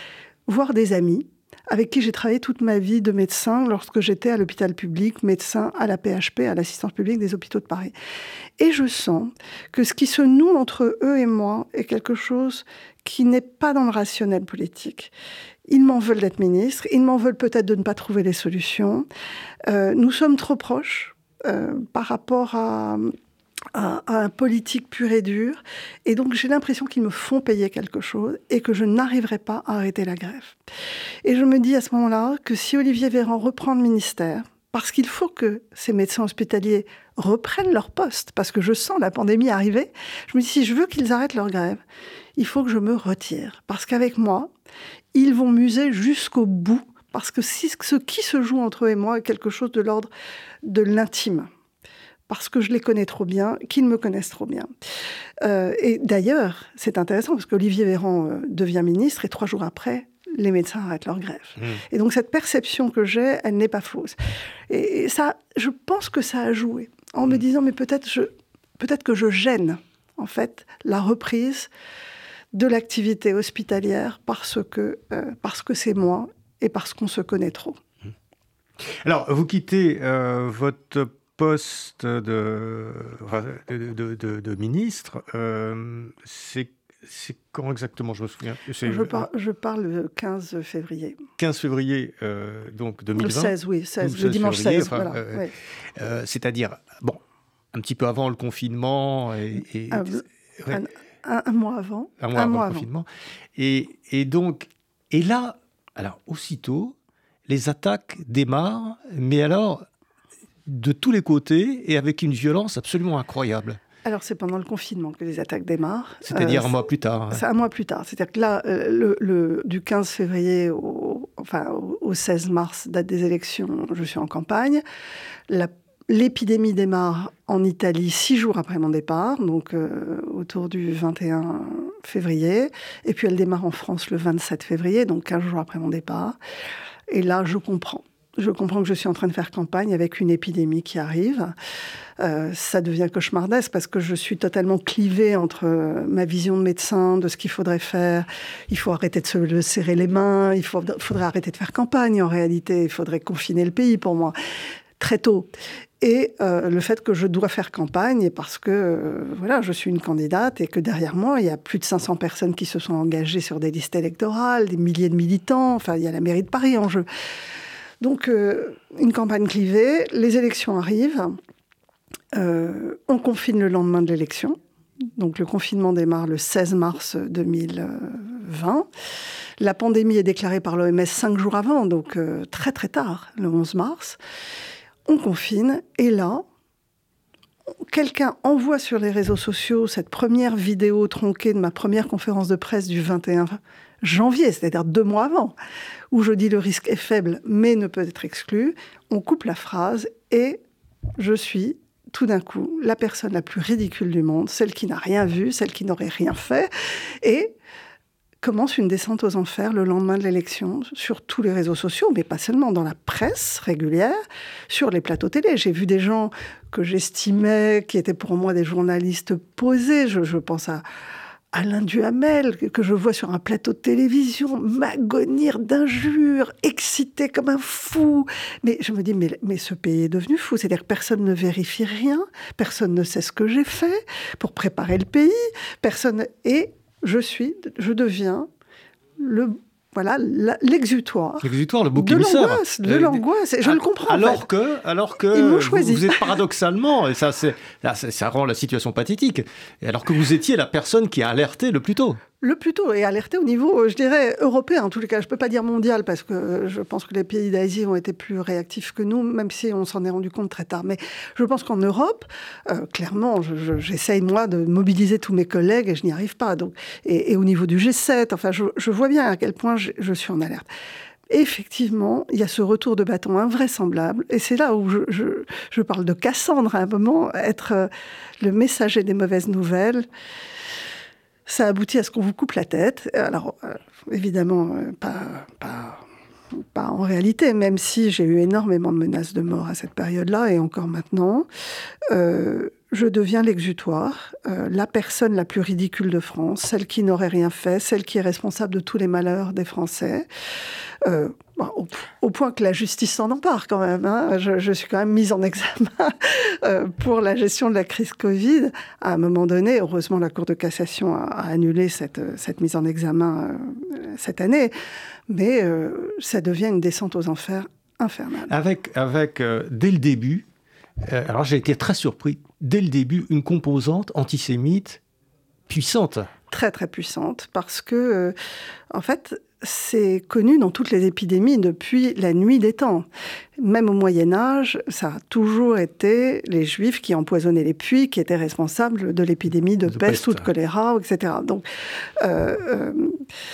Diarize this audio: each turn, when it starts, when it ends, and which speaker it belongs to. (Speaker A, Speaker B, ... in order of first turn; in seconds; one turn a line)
Speaker A: 0.5-7.9
Speaker A: 8.6-15.1
Speaker A: 15.7-19.1
Speaker A: 19.7-23.1
Speaker A: 23.7-30.6
Speaker A: 31.2-41.8
Speaker A: 42.4-44.5
Speaker A: 45.1-50.1
Speaker A: 50.6-51.5
Speaker A: 52.3-54.7
Speaker A: 55.4-64.2
Speaker A: 64.7-71.7
Speaker A: 72.5-77.8
Speaker B: 78.8-89.3
Speaker A: 88.8-91.2
Speaker B: 91.4-95.4
Speaker A: 93.2-95.5
Speaker B: 96.0-97.2
Speaker B: 97.7-100.8
Speaker A: 99.9-102.9
Speaker B: 102.2-107.0
Speaker B: 107.5-109.8
Speaker B: 110.7-113.8
Speaker A: 114.0-116.7
Speaker B: 116.2-117.4
Speaker A: 117.3-124.8
Speaker A: 125.5-136.4
Speaker A: 137.1-141.5
Speaker A: 142.2-154.3
Speaker A: 155.0-155.5
Speaker A: 156.0-167.1
Speaker A: 168.0-171.4
Speaker A: 172.3-174.6
Speaker A: 175.2-178.9
Speaker A: 179.6-184.2
Speaker A: 185.1-186.4
Speaker A: 187.9-195.5
Speaker A: 196.1-200.6
Speaker A: 201.2-206.7
Speaker A: 207.2-207.5
Speaker A: 208.4-214.2
Speaker A: 214.7-220.8
Speaker A: 221.5-238.5
Speaker A: 239.2-244.4
Speaker B: 241.4-252.2
Speaker A: 245.3-246.3
Speaker A: 252.4-270.6
Speaker A: 271.3-277.9
Speaker A: 278.4-280.1
Speaker A: 281.5-286.0
Speaker A: 286.6-291.5
Speaker A: 292.1-300.2
Speaker A: 301.0-314.7
Speaker A: 315.3-318.5
Speaker B: 318.5-320.4
Speaker B: 321.0-325.0
Speaker B: 325.7-326.3
Speaker A: 326.5-328.3
Speaker A: 328.9-333.1
Speaker A: 333.6-341.6
Speaker B: 339.9-340.5
Speaker A: 342.2-343.2